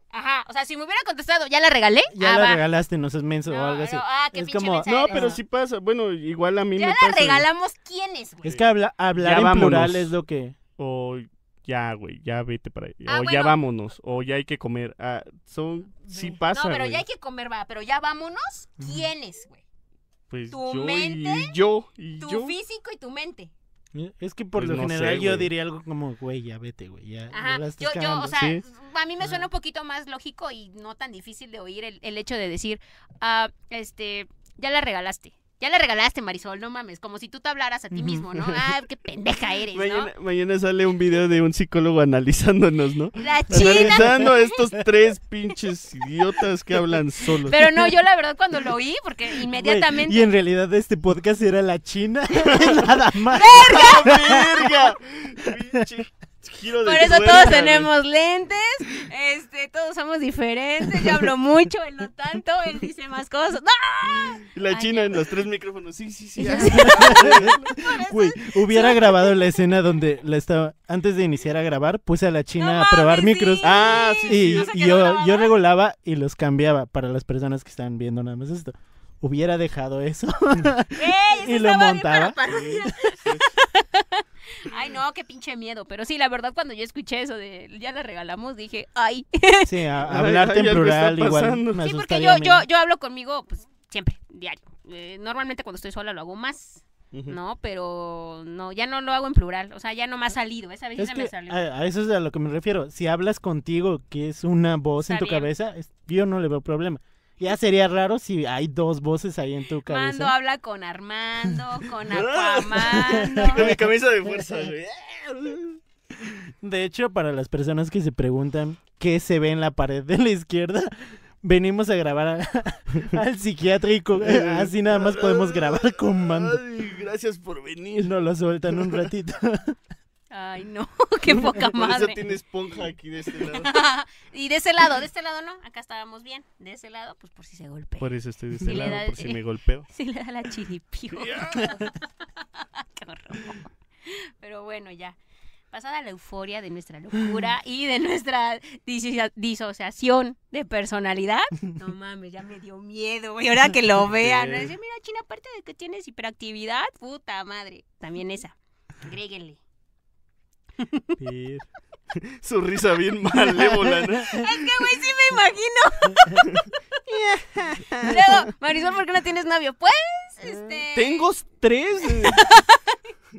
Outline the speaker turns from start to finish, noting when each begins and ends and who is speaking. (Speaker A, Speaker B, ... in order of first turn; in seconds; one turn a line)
Speaker A: 0.1-2.6
Speaker B: 2.1-5.4
Speaker A: 3.5-5.3
Speaker C: 4.9-7.5
Speaker A: 6.8-8.6
Speaker B: 8.4-10.6
Speaker C: 9.2-10.1
Speaker C: 10.8-17.1
Speaker A: 13.1-13.6
Speaker A: 16.1-19.6
Speaker B: 18.8-19.1
Speaker C: 20.3-22.6
Speaker A: 20.5-21.5
Speaker A: 22.2-23.5
Speaker B: 23.9-28.4
Speaker C: 24.6-25.5
Speaker A: 27.3-40.1
Speaker C: 28.3-28.6
Speaker B: 37.9-38.3
Speaker C: 38.4-38.8
Speaker C: 39.7-47.6
Speaker A: 43.1-44.6
Speaker B: 43.5-44.3
Speaker A: 47.4-50.3
Speaker B: 49.5-55.0
Speaker C: 52.5-52.8
Speaker A: 53.3-54.2
Speaker C: 53.7-57.9
Speaker B: 55.5-55.8
Speaker A: 56.8-65.2
Speaker C: 64.4-67.7
Speaker A: 66.4-69.6
Speaker B: 66.6-83.0
Speaker A: 72.6-75.5
Speaker C: 73.6-74.7
Speaker A: 81.0-89.8
Speaker C: 82.5-83.5
Speaker B: 89.7-92.6
Speaker C: 90.0-91.8
Speaker A: 91.8-101.7
Speaker C: 97.1-97.4
Speaker B: 101.0-110.3
Speaker A: 105.0-105.5
Speaker A: 109.9-113.7
Speaker C: 112.1-115.8
Speaker B: 112.9-113.8
Speaker B: 116.4-126.6
Speaker C: 124.2-128.1
Speaker B: 128.0-129.8
Speaker C: 128.7-129.1
Speaker A: 130.3-132.2
Speaker C: 131.3-133.7
Speaker A: 133.5-145.2
Speaker C: 138.0-139.9
Speaker B: 138.6-139.0
Speaker C: 141.1-141.8
Speaker A: 145.7-159.6
Speaker C: 154.1-154.7
Speaker A: 160.8-161.2
Speaker C: 161.2-164.7
Speaker B: 163.7-164.0
Speaker A: 164.3-171.3
Speaker C: 167.8-168.3
Speaker C: 170.4-172.6
Speaker A: 172.0-173.1